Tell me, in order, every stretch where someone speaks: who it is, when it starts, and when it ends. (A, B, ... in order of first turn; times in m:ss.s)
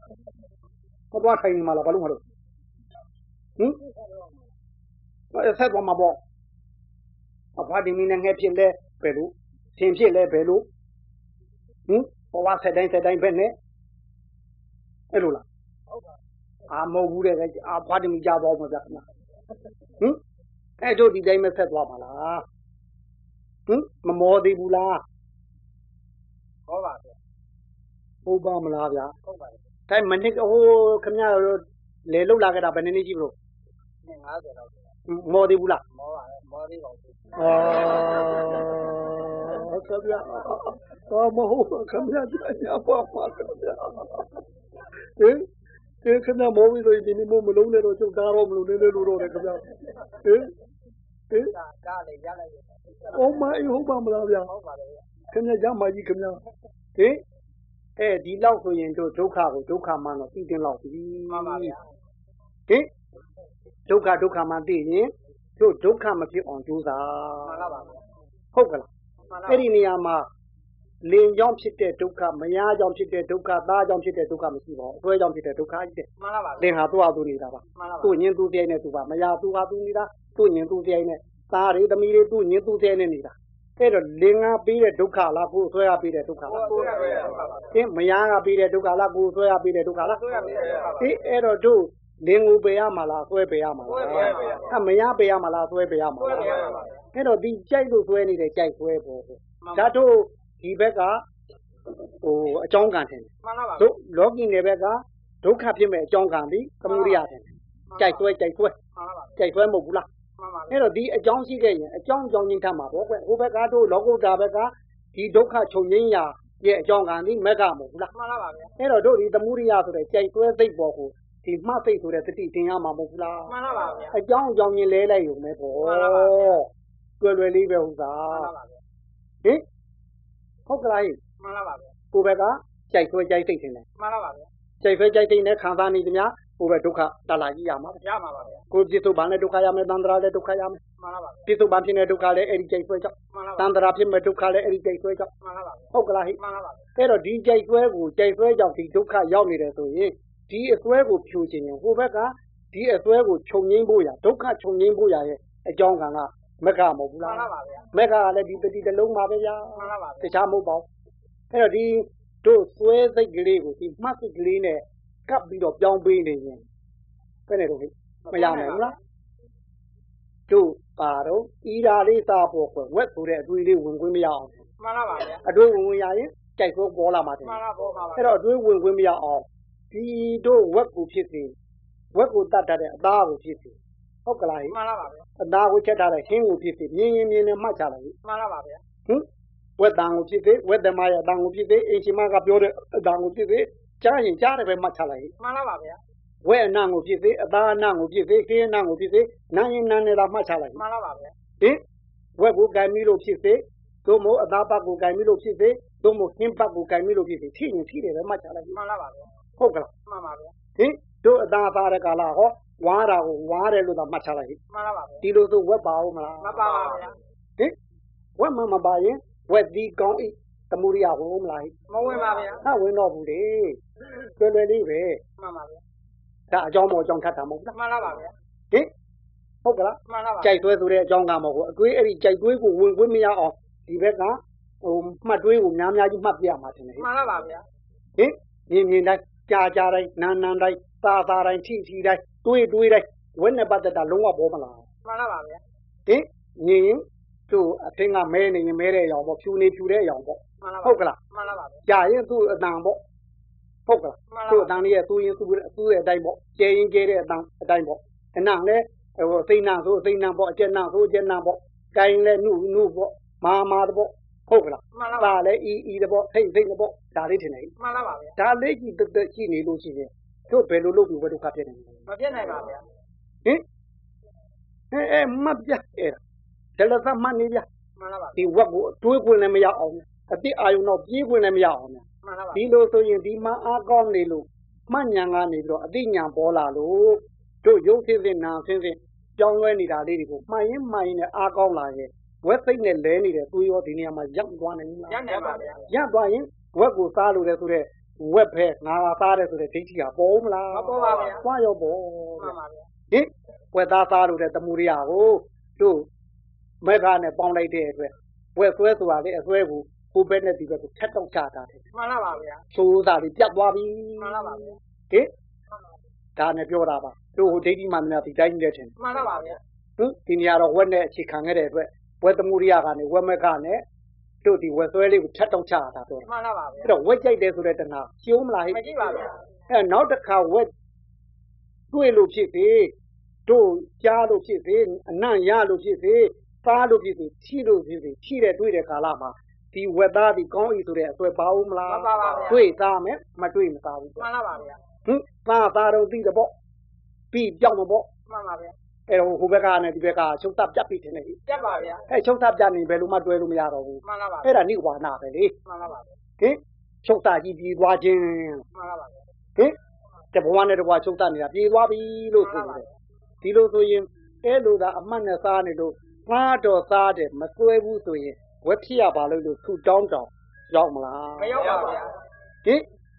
0:01.1-0:02.2 A
0:05.3-0:06.2 A
0:07.6-0:10.6 A
0:11.9-0:13.5 A
0:15.1-0:15.4 A
0:16.7-0:19.0 A
0:20.8-0:22.4 A
0:23.7-0:25.0 A
0:26.7-0:27.2 B
0:28.2-0:29.1 A
0:29.2-0:29.6 B
0:29.9-0:33.3 A
0:34.0-0:34.9 B
0:35.1-0:35.8 A
0:35.9-0:38.1 B
0:37.4-0:44.3 A
0:45.2-0:45.5 A
0:46.0-0:49.7 A
0:50.2-0:50.5 A
0:51.4-0:53.4 B
0:53.1-0:54.5 A
0:54.4-0:55.1 B
0:55.3-0:56.4 A
0:57.0-0:57.2 A
0:58.0-1:01.7 A
1:01.3-1:01.8 B
1:03.9-1:07.6 A
1:07.4-1:08.0 B
1:08.5-1:08.9 A
1:09.3-1:09.7 B
1:09.5-1:10.3 A
1:11.0-1:16.1 A
1:16.2-1:16.7 B
1:16.6-1:27.0 A
1:17.7-1:18.2 B
1:26.4-1:27.7 B
1:27.7-1:30.2 A
1:30.0-1:31.2 B
1:31.0-1:36.6 A
1:33.8-1:34.7 B
1:36.2-1:37.0 B
1:37.1-1:41.2 A
1:39.6-1:39.9 B
1:42.2-1:48.7 A
1:43.4-1:43.9 B
1:46.8-1:47.3 B
1:47.9-1:48.3 B
1:48.9-1:49.4 B
1:49.4-1:50.0 A
1:50.4-1:50.8 B
1:50.7-1:58.1 A
1:58.1-1:58.7 B
1:58.8-2:03.5 A
2:03.5-2:04.2 B
2:04.1-2:06.7 A
2:05.8-2:06.6 B
2:07.2-2:08.5 A
2:08.3-2:08.8 B
2:10.6-2:11.2 A
2:11.4-2:11.9 B
2:12.1-2:13.8 A
2:14.0-2:14.5 B
2:14.8-2:18.0 A
2:18.0-2:18.6 B
2:18.7-2:20.8 A
2:21.0-2:21.5 B
2:21.4-2:25.3 A
2:23.3-2:23.7 B
2:25.4-2:26.8 B
2:25.9-2:26.4 A
2:26.9-2:40.9 A
2:37.2-2:37.9 B
2:39.8-2:40.3 B
2:41.5-2:46.6 A
2:47.5-2:48.9 A
2:48.2-2:49.0 B
2:50.5-2:54.5 A
2:54.8-2:55.4 B
2:55.4-2:57.6 A
2:57.4-2:58.3 B
2:58.2-3:01.5 A
3:02.1-3:04.8 A
3:04.7-3:05.3 B
3:05.4-3:08.1 A
3:08.2-3:08.8 B
3:09.8-3:15.3 A
3:15.4-3:16.0 B
3:16.4-3:20.8 A
3:20.7-3:21.3 B
3:22.4-3:28.8 A
3:28.7-3:29.3 B
3:29.6-3:29.9 A
3:30.0-3:30.5 B
3:30.8-3:34.6 A
3:34.7-3:35.2 B
3:35.2-3:36.7 A
3:36.4-3:37.2 B
3:38.4-3:41.7 A
3:41.9-3:42.6 B
3:42.6-3:43.8 A
3:44.4-3:45.2 A
3:45.4-3:45.8 B
3:46.5-3:47.7 A
3:47.7-3:48.3 B
3:49.6-3:57.0 A
3:50.0-3:50.6 B
3:57.0-3:57.6 B
3:58.2-4:04.8 A
4:05.0-4:05.6 B
4:06.1-4:11.2 A
4:10.6-4:11.8 B
4:11.8-4:13.0 A
4:13.9-4:27.7 A
4:14.3-4:14.8 B
4:24.9-4:25.4 B
4:27.8-4:28.4 B
4:28.4-4:32.0 A
4:32.1-4:32.8 B
4:34.9-4:36.2 A
4:36.8-4:37.6 A
4:38.0-4:38.5 B
4:38.4-4:55.3 A
4:42.2-4:42.6 B
4:55.1-4:55.9 B
4:55.8-5:02.5 A
5:00.7-5:01.4 B
5:02.4-5:02.9 B
5:03.1-5:06.1 A
5:06.8-5:11.8 A
5:11.9-5:12.6 B
5:12.7-5:15.3 A
5:14.2-5:14.8 B
5:16.4-5:18.9 A
5:19.0-5:19.6 B
5:20.0-5:23.8 A
5:24.4-5:26.3 A
5:26.2-5:26.9 B
5:26.8-5:28.8 A
5:28.7-5:29.4 B
5:29.7-5:30.7 A
5:31.9-5:32.9 A
5:33.4-5:44.2 A
5:41.8-5:42.7 B
5:44.2-5:44.8 B
5:45.0-5:46.5 A
5:47.3-5:48.1 A
5:48.2-5:48.7 B
5:49.1-5:51.4 A
5:51.5-5:52.0 B
5:52.1-5:55.6 A
5:54.0-5:54.6 B
5:55.6-5:56.2 B
5:56.4-5:58.6 A
5:58.7-5:59.3 B
6:00.3-6:02.8 A
6:02.4-6:02.9 B
6:03.4-6:11.8 A
6:11.4-6:12.1 B